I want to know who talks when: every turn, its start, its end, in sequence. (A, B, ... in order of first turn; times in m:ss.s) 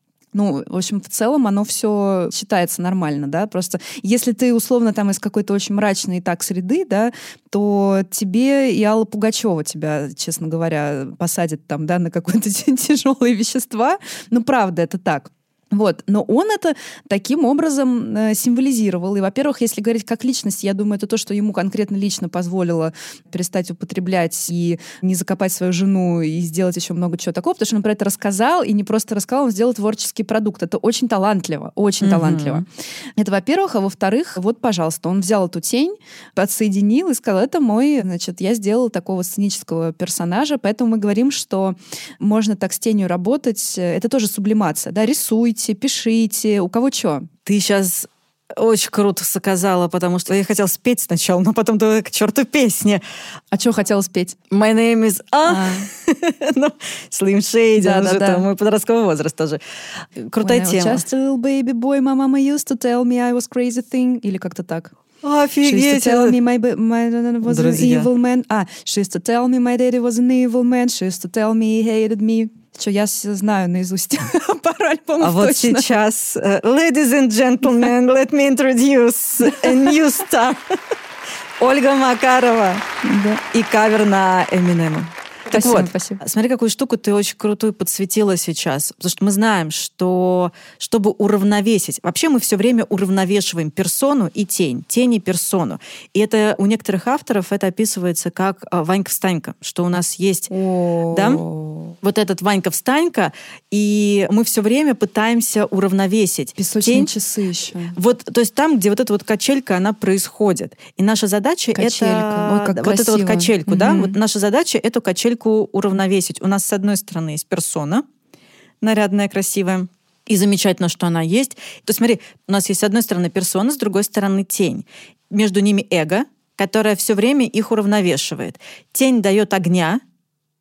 0:00.3-0:47.3 A
0:32.0-0:32.6 B
0:47.5-0:53.0 B
0:53.5-0:54.4 A
0:54.5-1:01.0 B
0:55.5-0:55.9 A
0:57.8-0:58.4 A
1:00.4-1:05.0 A
1:05.2-1:06.4 B
1:05.6-1:15.9 A
1:07.5-1:08.1 B
1:15.2-1:20.6 B
1:19.4-1:19.7 A
1:21.6-1:22.8 B
1:23.0-1:23.4 A
1:23.5-1:40.5 B
1:25.5-1:26.2 A
1:40.5-1:42.0 A
1:41.1-1:41.4 B
1:42.0-1:47.1 B
1:46.6-1:48.0 A
1:48.0-1:58.0 B
1:51.8-1:54.2 A
1:58.8-2:10.0 B